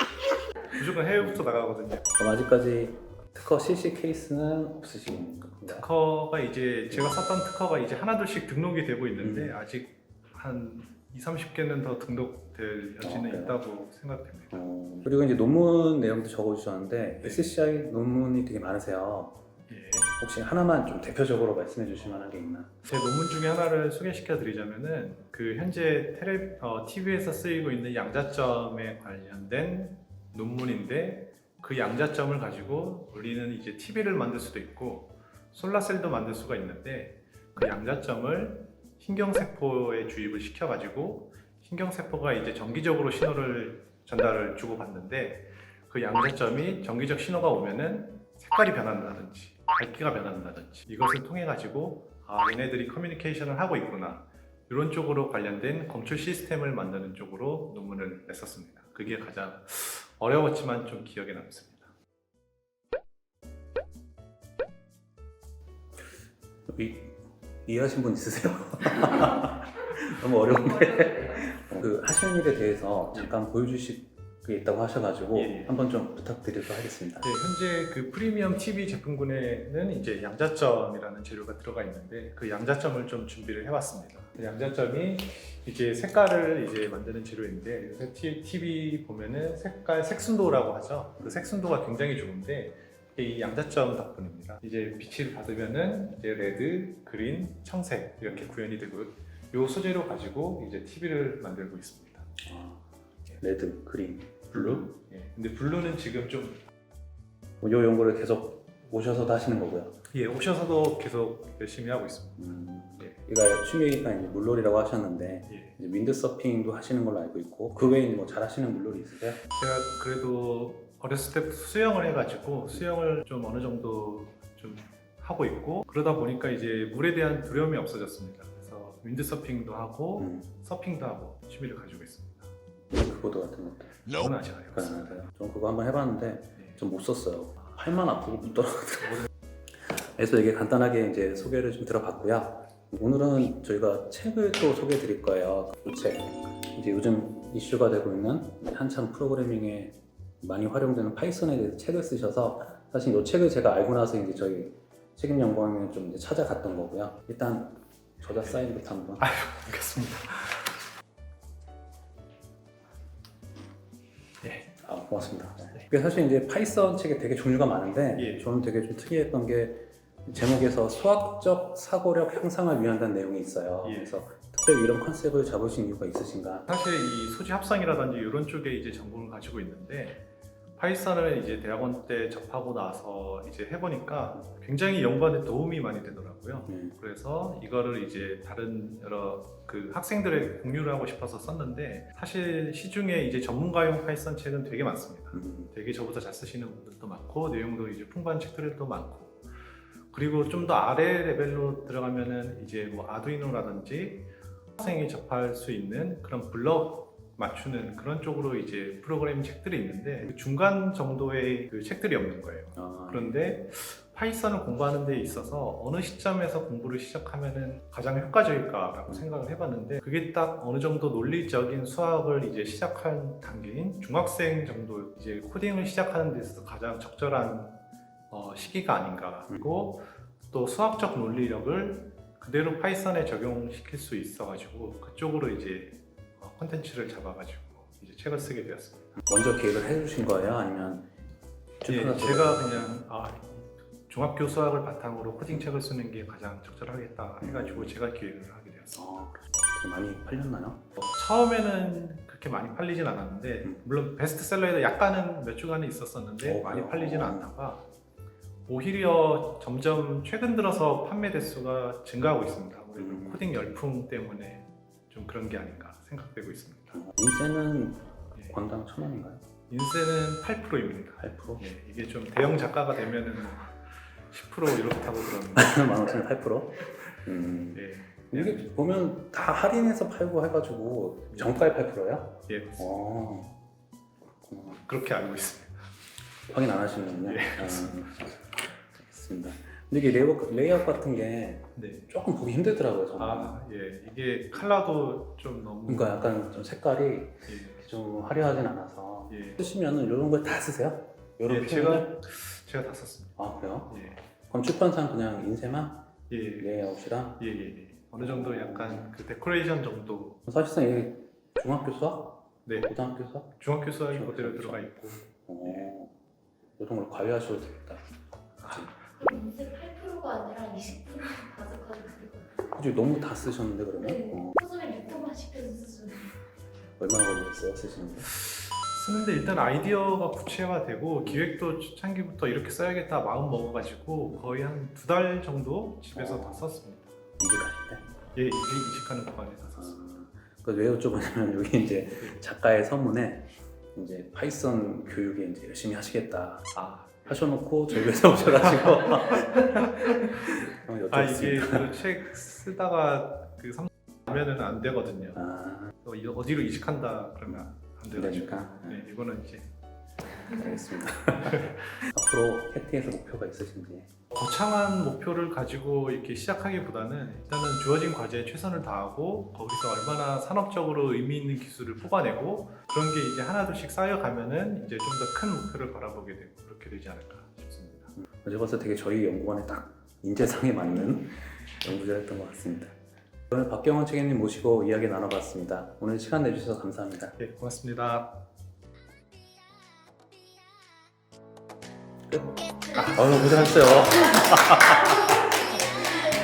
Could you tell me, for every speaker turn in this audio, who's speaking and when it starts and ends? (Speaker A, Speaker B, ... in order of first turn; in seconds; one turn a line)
Speaker A: 0.7-2.0
Speaker B: 2.2-5.9
Speaker A: 5.7-14.7
Speaker B: 6.9-7.2
Speaker B: 9.2-9.5
Speaker B: 13.0-13.6
Speaker B: 14.5-19.4
Speaker A: 17.2-17.5
Speaker A: 19.7-20.1
Speaker B: 20.2-22.7
Speaker A: 22.8-61.9
Speaker B: 66.7-77.3
Speaker A: 75.3-75.7
Speaker A: 77.2-102.3
Speaker B: 91.2-91.4
Speaker B: 102.4-102.8
Speaker B: 103.4-104.9
Speaker A: 104.5-106.6
Speaker B: 107.6-109.9
Speaker A: 110.1-113.2
Speaker B: 112.4-119.4
Speaker A: 115.5-115.8
Speaker A: 119.5-132.5
Speaker B: 130.2-130.5
Speaker B: 132.9-134.0
Speaker A: 134.1-135.2
Speaker B: 134.7-139.3
Speaker B: 139.8-159.2
Speaker A: 158.2-158.7
Speaker A: 159.2-160.8
Speaker A: 164.4-164.7
Speaker B: 164.8-176.7
Speaker A: 168.1-168.5
Speaker A: 173.8-174.2
Speaker A: 176.7-180.2
Speaker A: 180.8-199.4
Speaker B: 186.7-186.9
Speaker B: 195.3-195.7
Speaker A: 200.1-239.1
Speaker B: 212.8-213.4
Speaker B: 239.2-241.1
Speaker B: 241.8-242.9
Speaker A: 241.8-249.1
Speaker B: 247.4-247.9
Speaker B: 248.9-250.9
Speaker A: 251.0-257.8
Speaker B: 256.4-257.5
Speaker A: 258.7-267.0
Speaker B: 263.0-263.5
Speaker B: 266.9-269.4
Speaker A: 269.7-276.0
Speaker B: 271.2-271.6
Speaker B: 275.5-283.6
Speaker A: 277.7-278.7
Speaker A: 281.3-281.6
Speaker A: 282.5-283.0
Speaker B: 284.4-284.8
Speaker A: 284.8-285.8
Speaker B: 286.5-288.3
Speaker A: 287.2-288.2
Speaker B: 289.0-293.6
Speaker A: 291.8-292.1
Speaker A: 293.1-296.4
Speaker B: 295.9-302.1
Speaker A: 297.5-297.8
Speaker A: 299.3-299.6
Speaker A: 301.4-303.4
Speaker B: 303.4-307.4
Speaker A: 303.9-304.2
Speaker A: 306.3-310.4
Speaker B: 308.2-309.1
Speaker B: 310.5-313.5
Speaker A: 312.6-312.9
Speaker A: 313.5-315.9
Speaker B: 314.1-316.1
Speaker B: 316.8-318.1
Speaker A: 318.6-319.1
Speaker B: 318.6-319.3
Speaker C: 319.2-322.6
Speaker B: 322.7-324.6
Speaker C: 324.1-326.3
Speaker B: 327.0-328.3
Speaker A: 328.3-337.1
Speaker B: 336.1-336.6
Speaker B: 337.4-338.0
Speaker A: 338.3-340.0
Speaker B: 339.7-346.7
Speaker A: 346.7-347.4
Speaker B: 347.2-352.0
Speaker A: 348.5-350.5
Speaker A: 351.1-355.4
Speaker B: 355.3-355.9
Speaker A: 356.0-359.7
Speaker B: 358.1-359.1
Speaker B: 360.4-364.1
Speaker A: 361.5-362.0
Speaker A: 364.3-378.1
Speaker B: 378.4-382.9
Speaker B: 383.5-387.4
Speaker A: 387.4-388.4
Speaker B: 392.3-395.3
Speaker A: 392.9-395.3